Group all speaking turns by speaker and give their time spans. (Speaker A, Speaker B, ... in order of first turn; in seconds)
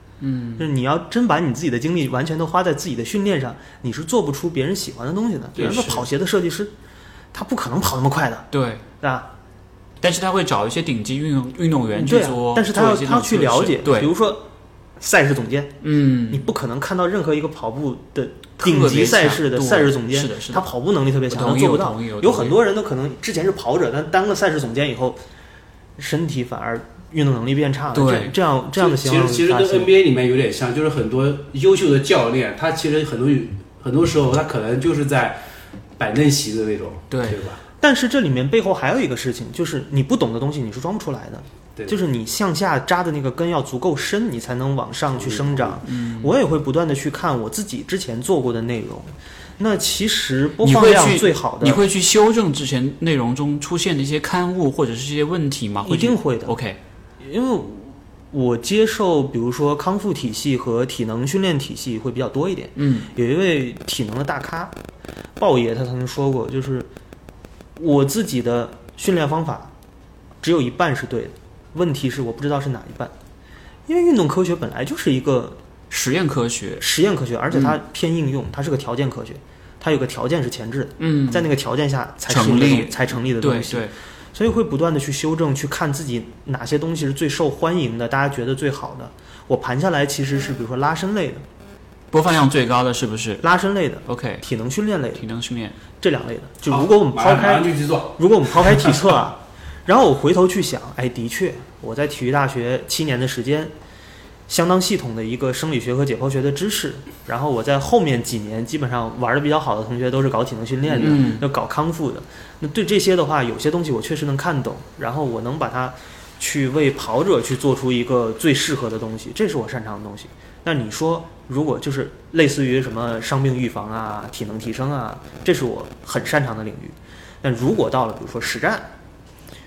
Speaker A: 0.2-0.7, 5.5-6.0, 8.5-8.8, 10.0-14.1, 15.8-16.4, 18.6-20.7, 21.3-22.6, 27.9-28.3, 37.1-37.4, 45.9-46.3, 50.6-56.8, 62.8-63.1, 75.9-76.8, 77.5-77.8, 81.0-81.5, 82.3-83.9, 92.1-93.4, 94.0-94.5, 95.1-95.8, 110.9-111.4
Speaker B: 0.6-6.7, 7.3-8.5, 9.0-9.3, 11.9-14.4, 15.0-15.8, 16.3-25.2, 26.0-29.9, 37.8-51.8, 55.8-56.5, 57.2-64.7, 65.4-66.9, 67.8-69.7, 70.4-73.1, 73.9-75.6, 76.8-91.4, 93.4-95.2, 96.0-103.7, 104.5-128.9
Speaker C: 28.8-35.4, 36.0-37.6, 45.1-45.8, 96.7-98.9